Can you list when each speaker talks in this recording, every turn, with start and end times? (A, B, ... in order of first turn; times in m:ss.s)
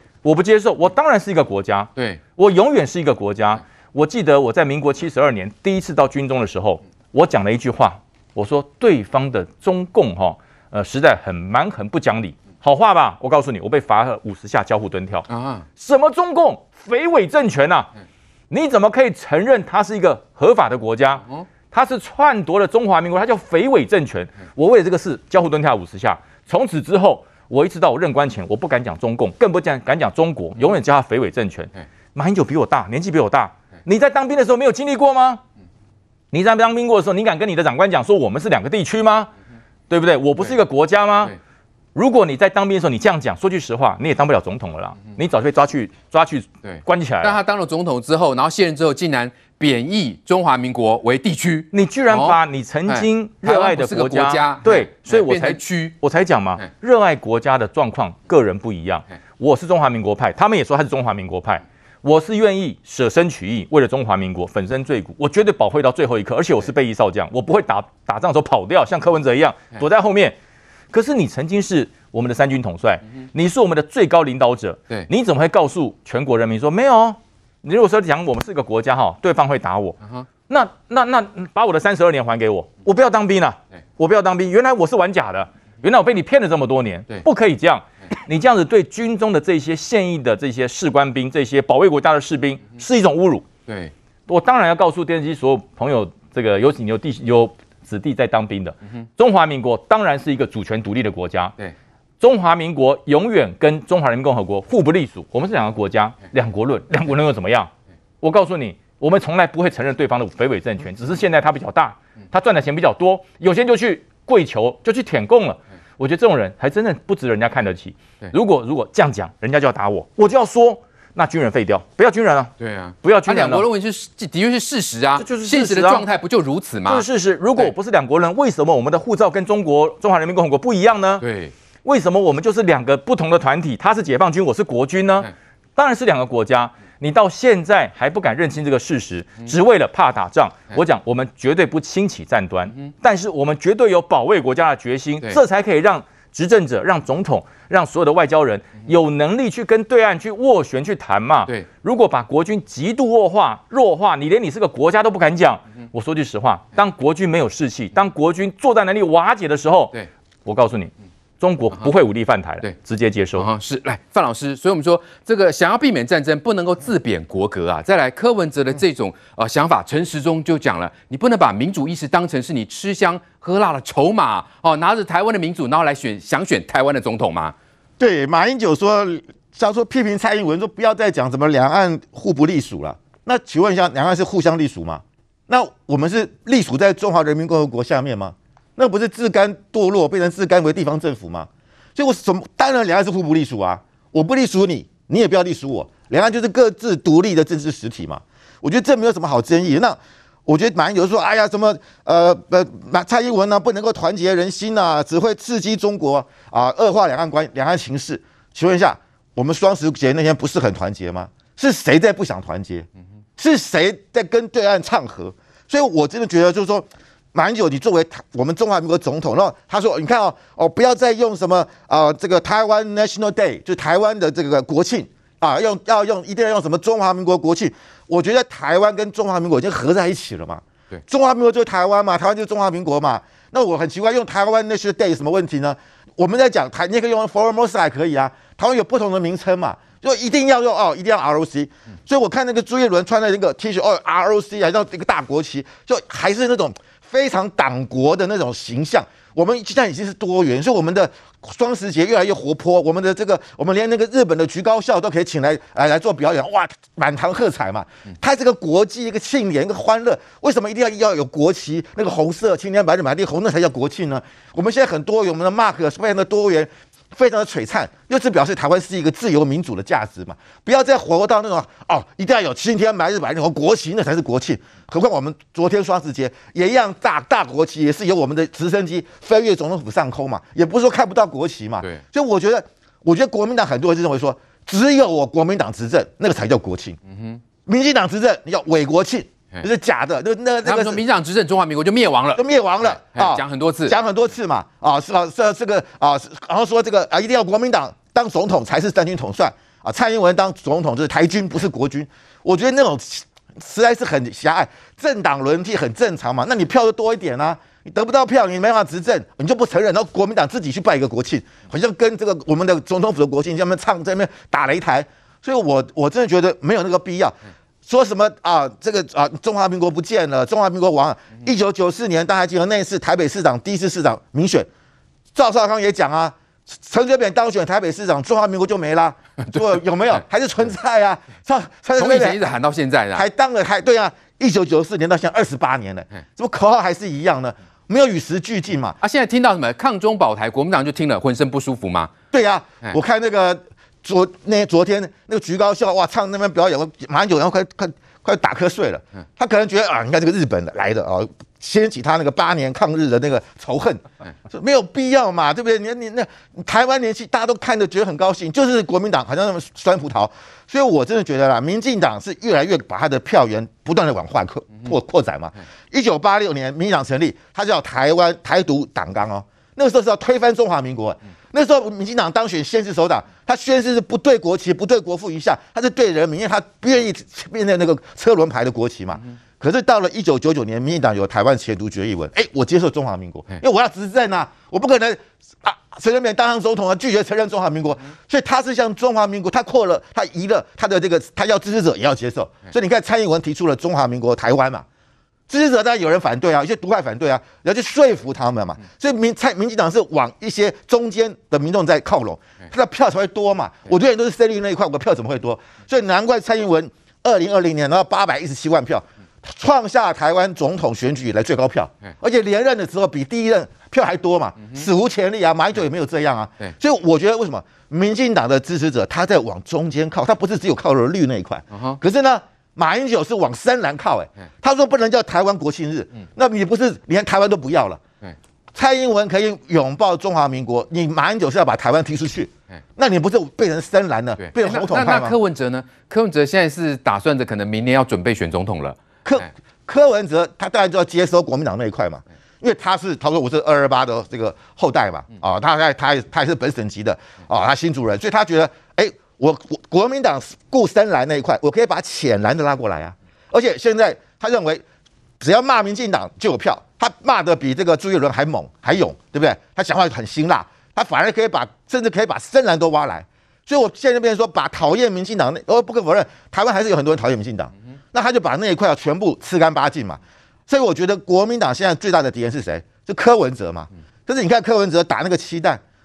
0:00.2-0:17.9 A
0:15.3-0:15.7 B
0:18.5-0:35.4 A
0:36.3-0:39.3 A
0:39.9-0:41.4 A
0:42.0-0:47.4 A
0:46.6-0:56.0 B
0:51.7-1:10.4 A
1:10.9-1:33.5 A
1:33.7-1:33.9 B
1:34.3-1:41.6 A
1:42.2-1:47.7 A
1:48.2-2:03.6 A
2:02.6-2:07.0 B
2:05.2-2:06.1 A
2:06.9-2:11.2 A
2:11.2-2:11.5 B
2:11.8-2:43.5 A
2:43.4-2:57.5 B
2:58.0-4:47.0 C
4:47.1-4:47.4 B
4:47.7-4:51.0 C
4:50.6-4:53.9 B
4:52.4-5:24.7 C
5:25.4-5:32.4 C
5:32.0-5:33.2 B
5:33.1-5:39.0 C
5:39.0-5:42.1 B
5:42.3-6:34.8 C
6:35.5-7:08.0 C
7:01.7-7:02.0 B
7:08.7-7:15.4 C
7:14.4-7:19.0 B
7:19.2-7:34.8 C
7:35.4-7:55.8 C